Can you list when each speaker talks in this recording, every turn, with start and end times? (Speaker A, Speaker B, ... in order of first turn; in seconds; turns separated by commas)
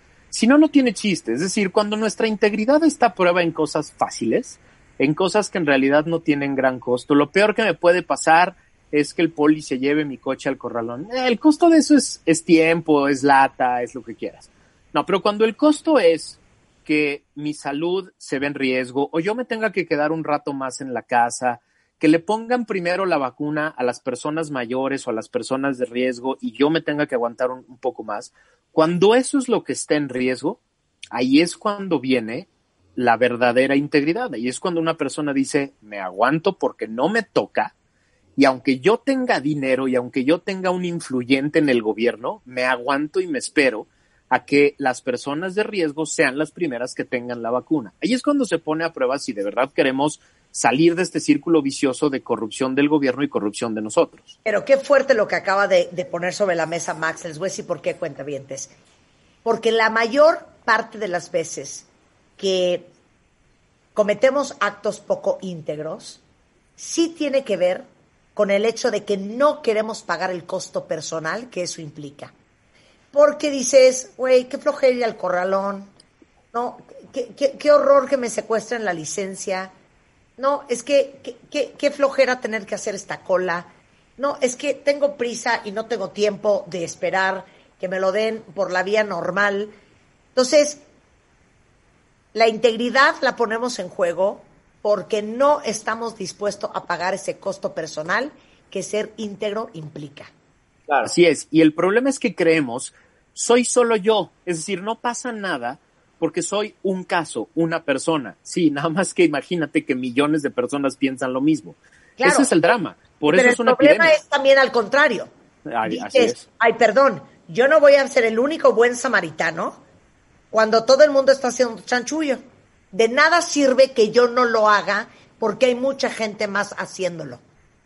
Speaker A: 0.3-30.6, Speaker A: 31.1-37.7, Speaker A: 38.4-54.4, Speaker B: 54.4-58.7, Speaker B: 59.4-62.9, Speaker B: 63.9-66.2, Speaker B: 66.8-72.3, Speaker B: 73.1-75.9, Speaker B: 76.5-79.7, Speaker B: 80.4-89.7, Speaker B: 90.3-90.8, Speaker B: 92.3-100.3, Speaker A: 101.0-114.2, Speaker B: 112.2-112.5, Speaker B: 113.3-115.3, Speaker A: 115.7-116.4, Speaker B: 115.9-119.8, Speaker B: 120.5-127.4